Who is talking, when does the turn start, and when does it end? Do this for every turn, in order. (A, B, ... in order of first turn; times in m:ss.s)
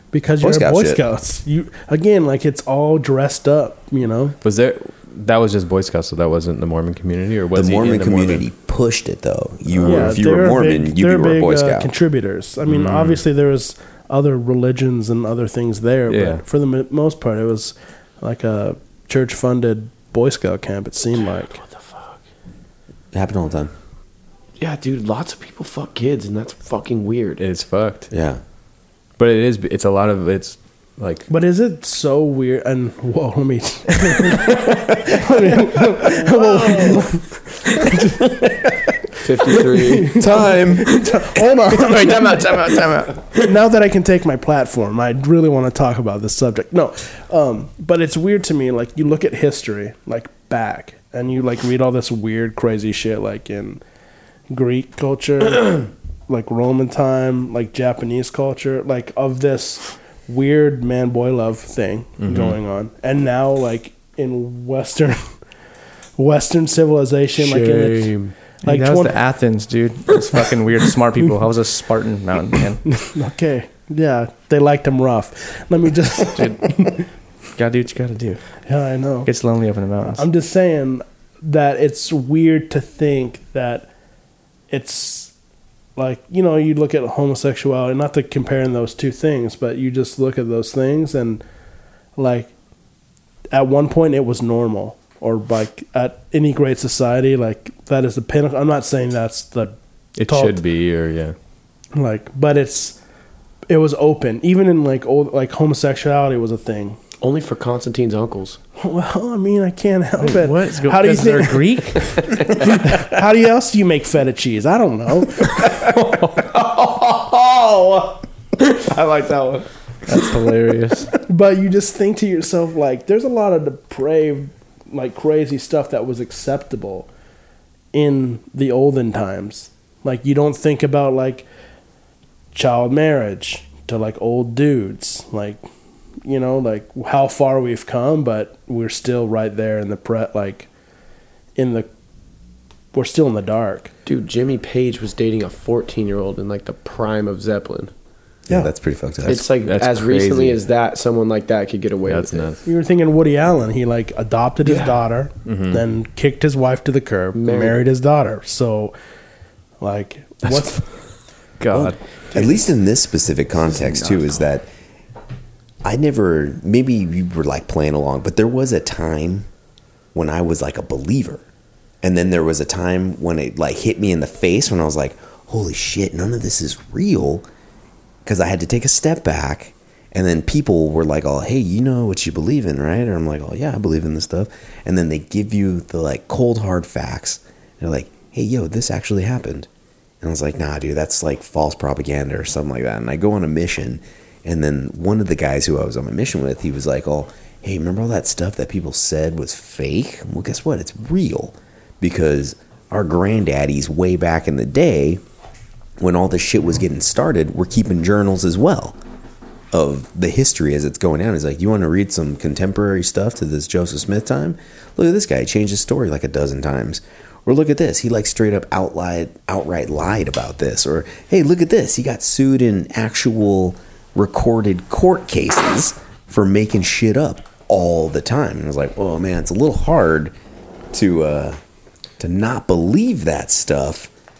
0:00.1-0:04.4 A
0:00.4-0:01.0 B
0:04.4-0:08.4 C
0:07.5-0:11.9 B
0:09.8-0:21.6 A
0:12.6-0:13.2 C
0:16.1-0:16.4 C
0:21.6-0:22.2 D
0:23.1-0:23.7 B
0:24.6-0:27.4 D
0:27.4-0:28.1 C
0:28.1-0:28.4 B
0:29.2-0:31.3 C
0:31.3-0:38.5 A
0:39.2-0:40.2 D
0:39.7-0:42.4 A
0:40.1-0:40.9 B
0:41.7-0:43.4 E
0:43.4-0:53.8 A
0:54.5-1:05.3 A
1:02.2-1:02.6 C
1:06.2-1:09.2 A
1:07.3-1:08.3 D
1:08.6-1:12.8 E
1:12.9-1:17.0 A
1:16.4-1:16.8 E
1:17.6-1:18.4 E
1:18.6-1:19.3 A
1:19.2-1:20.2 E
1:20.1-1:23.9 A
1:24.7-1:25.3 A
1:26.0-1:31.4 A
1:32.2-1:32.5 A
1:33.5-1:39.7 A
1:40.2-1:41.3 C
1:40.3-1:40.6 A
1:41.9-1:43.0 A
1:43.7-1:47.0 A
1:47.2-1:48.6 D
1:48.8-1:55.8 A
1:50.2-1:52.4 E
1:58.8-2:01.1 E
1:59.0-1:59.6 D
2:01.2-2:07.1 A
2:07.9-2:11.4 A
2:12.5-2:15.6 A
2:16.2-2:20.7 A
2:21.6-2:21.9 A
2:22.9-2:23.9 A
2:24.0-2:27.9 D
2:28.5-2:29.4 B
2:29.2-2:32.5 D
2:29.3-2:30.6 C
2:32.1-2:32.6 C
2:32.6-2:38.9 A
2:34.6-2:35.0 D
2:35.4-2:35.8 C
2:37.3-2:37.8 D
2:39.8-2:40.8 A
2:40.4-2:40.8 C
2:41.6-2:42.0 C
2:41.7-2:44.7 B
2:45.8-2:49.5 B
2:50.1-2:51.4 B
2:52.0-2:57.4 B
2:58.2-3:09.7 B
3:10.2-3:25.2 B
3:26.0-3:29.0 B
3:29.7-3:50.3 B
3:50.9-3:51.6 B
3:52.2-3:54.1 B